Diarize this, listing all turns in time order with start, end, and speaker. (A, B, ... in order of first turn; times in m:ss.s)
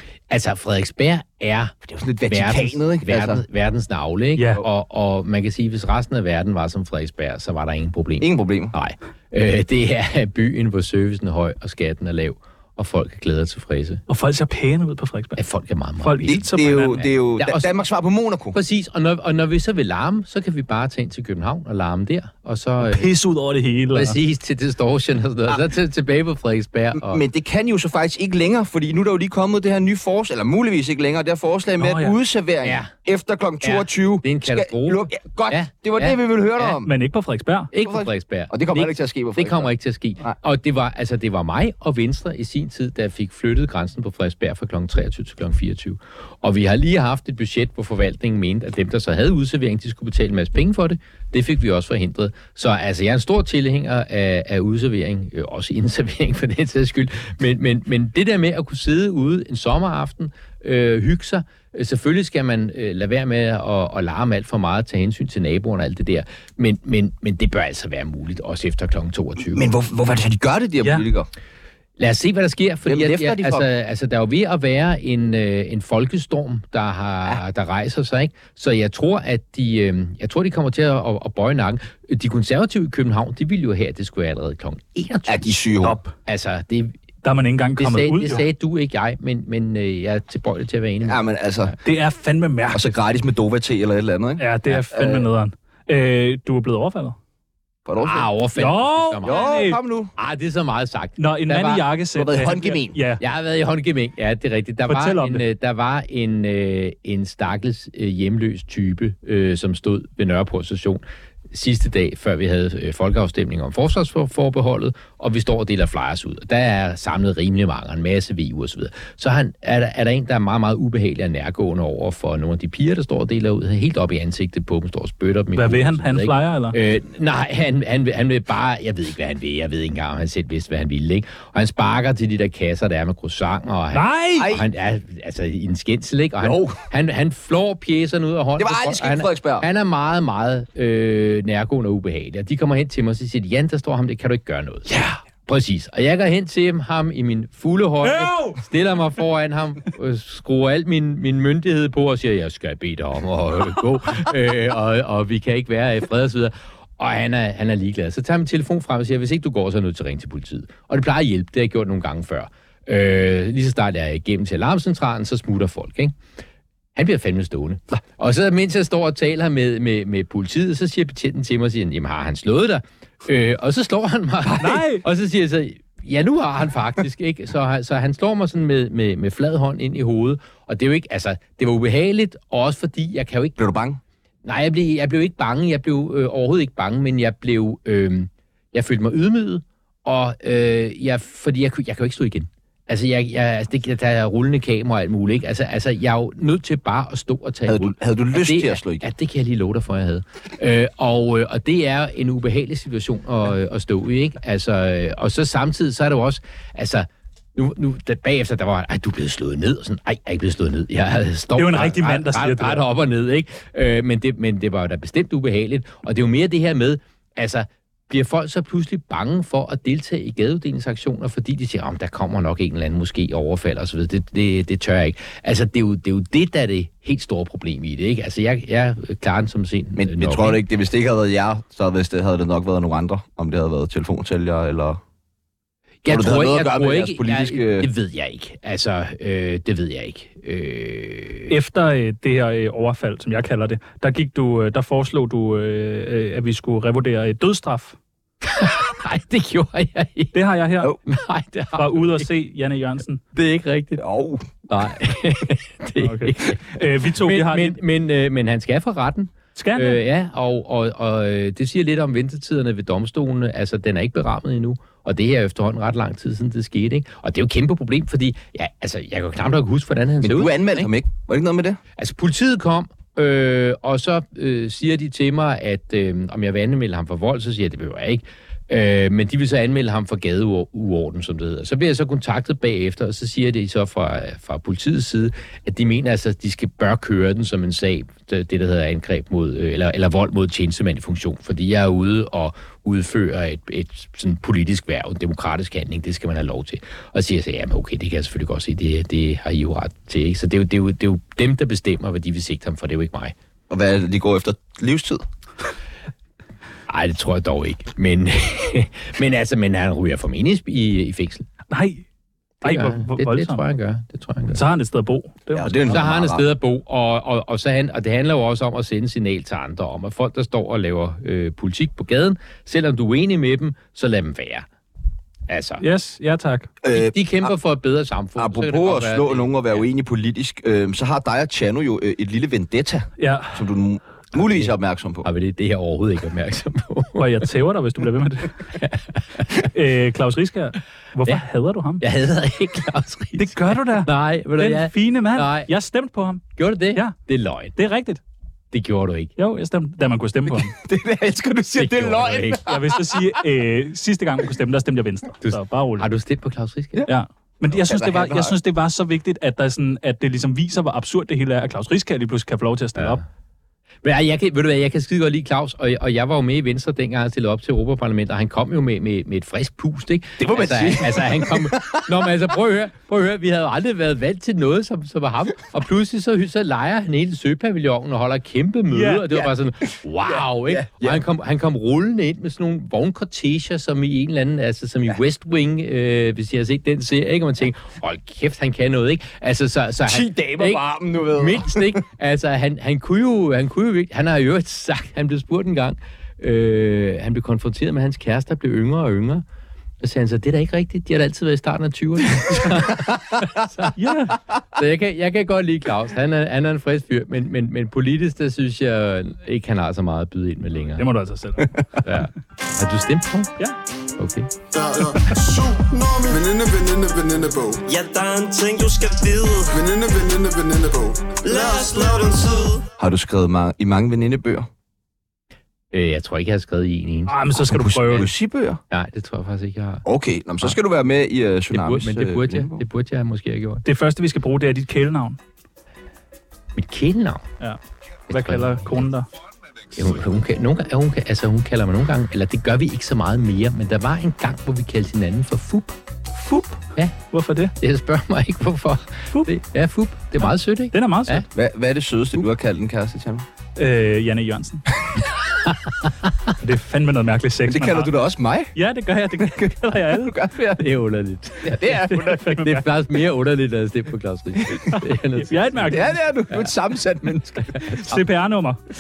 0:00.3-0:01.8 A
0:01.9-0:03.4 B
0:02.3-0:14.0 A
0:04.4-0:04.6 C
0:08.2-0:08.7 B
0:14.1-0:15.4 C
0:15.4-0:17.7 A
0:16.0-0:17.1 C
0:16.3-0:18.6 B
0:18.5-0:23.1 A
0:22.8-0:24.2 C
0:23.9-0:27.2 A
0:27.0-0:36.9 B
0:31.8-0:32.2 C
0:32.6-0:32.9 A
0:33.6-0:36.8 A
0:36.8-0:37.7 C
0:37.7-1:09.7 A
0:37.8-0:39.7 B
1:09.5-1:11.3 B
1:12.0-1:27.0 A
1:12.9-1:13.7 B
1:25.3-1:26.0 B
1:25.8-1:26.1 C
1:27.2-1:28.4 C
1:27.8-1:31.8 A
1:31.0-1:31.8 B
1:31.8-1:33.0 C
1:32.7-1:35.3 B
1:34.4-1:37.2 C
1:37.9-1:38.3 B
1:38.0-1:39.5 A
1:38.6-1:39.8 C
1:39.2-1:40.1 B
1:40.2-1:41.9 A
1:41.2-1:43.2 C
1:42.2-1:43.0 B
1:43.2-2:46.2 A
1:44.9-1:45.4 C
2:05.6-2:06.8 C
2:13.9-2:14.5 C
2:14.4-2:14.7 B
2:16.4-2:16.8 B
2:18.6-2:19.7 B
2:24.9-2:25.2 B
2:28.0-2:28.6 C
2:47.0-3:03.6 A
2:54.6-2:55.0 C
3:03.6-3:04.0 B
3:04.4-3:50.6 A
3:17.7-3:19.1 B
3:31.6-3:32.9 C
3:50.0-3:55.0 B
3:56.0-4:01.5 A
3:56.1-3:57.9 B
4:01.5-4:08.0 C
4:08.4-4:10.4 A
4:10.3-4:11.0 C
4:11.1-4:12.3 A
4:11.8-4:13.2 C
4:13.3-4:14.0 A
4:14.0-4:14.5 B
4:14.7-4:30.9 A
4:16.0-4:17.8 C
4:19.6-4:20.0 C
4:30.2-4:31.8 B
4:32.0-5:03.4 A
5:03.7-5:05.2 B
5:06.9-5:11.5 A
5:11.7-5:12.0 C
5:12.6-5:13.6 C
5:12.6-5:14.6 A
5:14.5-5:16.0 C
5:15.5-5:16.4 B
5:15.9-5:24.7 A
5:25.5-5:25.8 A
5:25.8-5:26.7 C
5:26.8-5:27.5 B
5:26.9-5:29.8 A
5:28.4-5:35.3 B
5:33.2-5:33.6 C
5:34.4-5:34.7 A
5:35.2-5:37.3 A
5:37.2-5:38.6 C
5:38.8-5:39.4 A
5:39.6-5:42.0 C
5:42.0-5:45.7 A
5:43.4-5:46.4 C
5:46.6-5:47.8 A
5:47.8-5:48.2 C
5:48.7-5:49.3 A
5:49.4-5:50.8 C
5:50.7-5:53.2 B
5:51.8-5:52.8 A
5:52.7-5:56.1 C
5:55.4-5:57.1 A
5:57.1-6:03.2 C
5:57.7-5:58.6 B
6:03.0-6:03.2 A
6:04.0-6:39.4 A
6:10.4-6:12.2 B
6:18.9-6:19.2 C
6:20.3-6:21.2 B
6:30.1-6:32.0 B
6:40.0-6:44.2 A
6:44.0-6:44.4 C
6:44.7-6:51.1 A
6:51.0-6:51.8 C
6:52.0-6:53.5 A
6:54.2-6:54.5 A
6:54.7-6:57.8 D
6:57.9-6:59.8 E
6:59.7-7:02.5 D
7:01.4-7:02.9 E
7:03.0-7:04.7 B
7:05.9-7:08.3 A
7:07.3-7:08.3 C
7:07.7-7:08.8 B
7:08.9-7:10.0 A
7:10.0-7:12.8 B
7:11.7-7:13.8 A
7:13.8-7:15.4 C
7:16.8-7:17.5 A
7:18.3-7:19.0 A
7:18.3-7:19.3 C
7:20.0-7:26.0 A
7:26.4-7:27.7 C
7:27.8-7:31.5 A
7:30.9-7:31.4 C
7:31.5-7:33.5 B
7:33.8-7:34.8 C
7:35.7-7:35.9 A
7:36.6-7:38.1 C
7:37.7-7:38.7 B
7:38.8-7:40.4 C
7:39.4-7:40.8 B
7:40.8-7:46.7 A
7:41.6-7:42.6 B
7:42.1-7:42.8 C
7:44.9-7:46.2 C
7:45.9-7:48.0 B
7:47.8-7:48.2 A
7:47.9-7:48.8 C